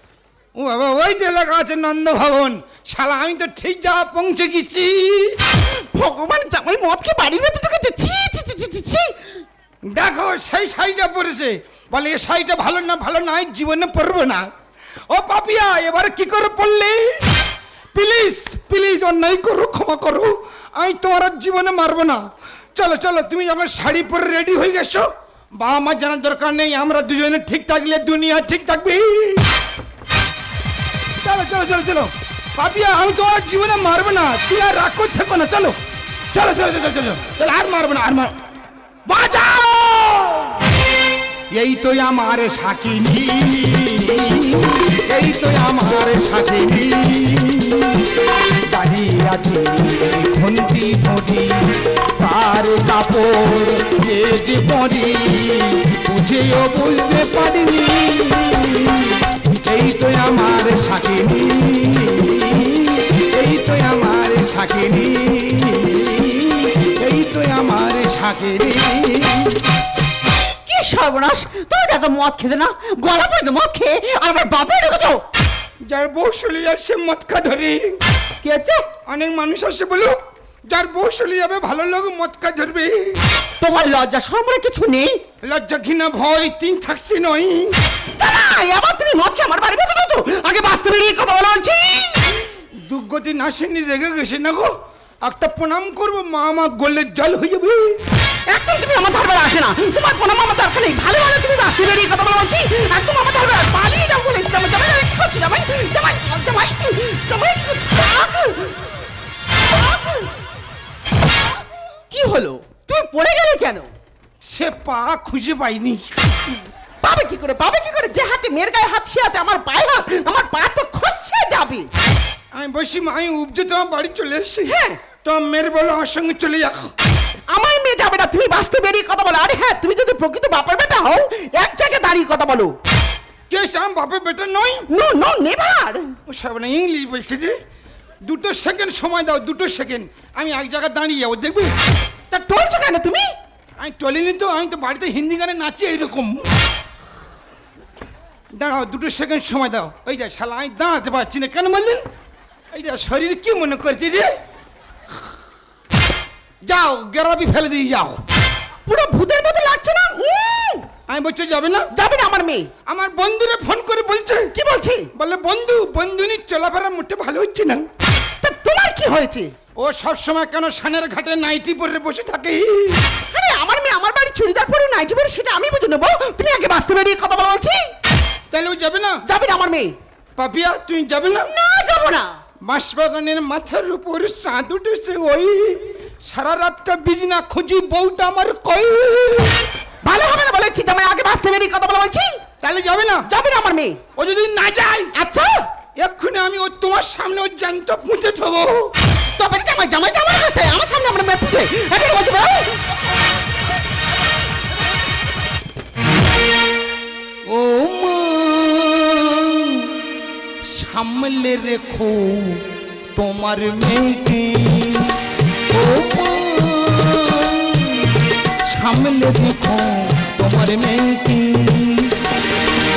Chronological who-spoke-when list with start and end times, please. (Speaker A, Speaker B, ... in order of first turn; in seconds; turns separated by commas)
Speaker A: 0.6-5.4, Speaker B: 5.7-9.2, Speaker A: 9.9-14.5, Speaker A: 15.1-17.4, Speaker A: 17.9-22.2, Speaker A: 22.8-29.5, Speaker A: 31.2-35.8, Speaker A: 36.3-38.3, Speaker A: 39.1-40.5, Speaker A: 41.5-69.6, Speaker C: 70.7-75.2, Speaker A: 75.9-78.0, Speaker C: 78.4-78.9, Speaker A: 79.1-80.2, Speaker A: 80.7-83.2, Speaker C: 83.6-85.2, Speaker A: 85.4-87.8, Speaker B: 88.2-92.3, Speaker A: 92.8-94.7, Speaker A: 95.2-97.9, Speaker B: 98.5-108.8, Speaker B: 109.7-110.3, Speaker B: 112.1-113.9, Speaker C: 112.7-113.6, Speaker A: 114.4-116.1, Speaker B: 117.0-121.9, Speaker A: 122.5-126.9, Speaker B: 124.7-125.0, Speaker B: 127.5-132.8, Speaker A: 133.5-134.9, Speaker B: 134.9-136.1, Speaker A: 136.3-137.6, Speaker A: 138.2-141.7, Speaker B: 142.3-143.3, Speaker A: 143.8-146.4, Speaker A: 148.5-152.1, Speaker A: 152.7-154.3, Speaker A: 156.7-158.2, Speaker B: 158.9-160.8, Speaker A: 161.1-161.9, Speaker B: 161.9-162.7, Speaker A: 162.9-164.5, Speaker B: 164.5-165.1, Speaker A: 165.2-167.8, Speaker B: 168.4-169.5, Speaker A: 169.8-173.0, Speaker B: 173.3-177.8, Speaker A: 178.5-179.2, Speaker B: 179.3-179.9, Speaker A: 180.4-181.5, Speaker C: 181.5-182.3, Speaker A: 182.7-189.6, Speaker B: 190.1-192.4, Speaker A: 192.6-193.3, Speaker B: 193.3-194.0, Speaker A: 194.2-195.1, Speaker B: 195.1-195.6, Speaker A: 196.0-198.9, Speaker B: 199.3-202.8, Speaker A: 207.5-209.9, Speaker A: 210.7-212.6, Speaker A: 213.2-215.2, Speaker A: 215.7-222.2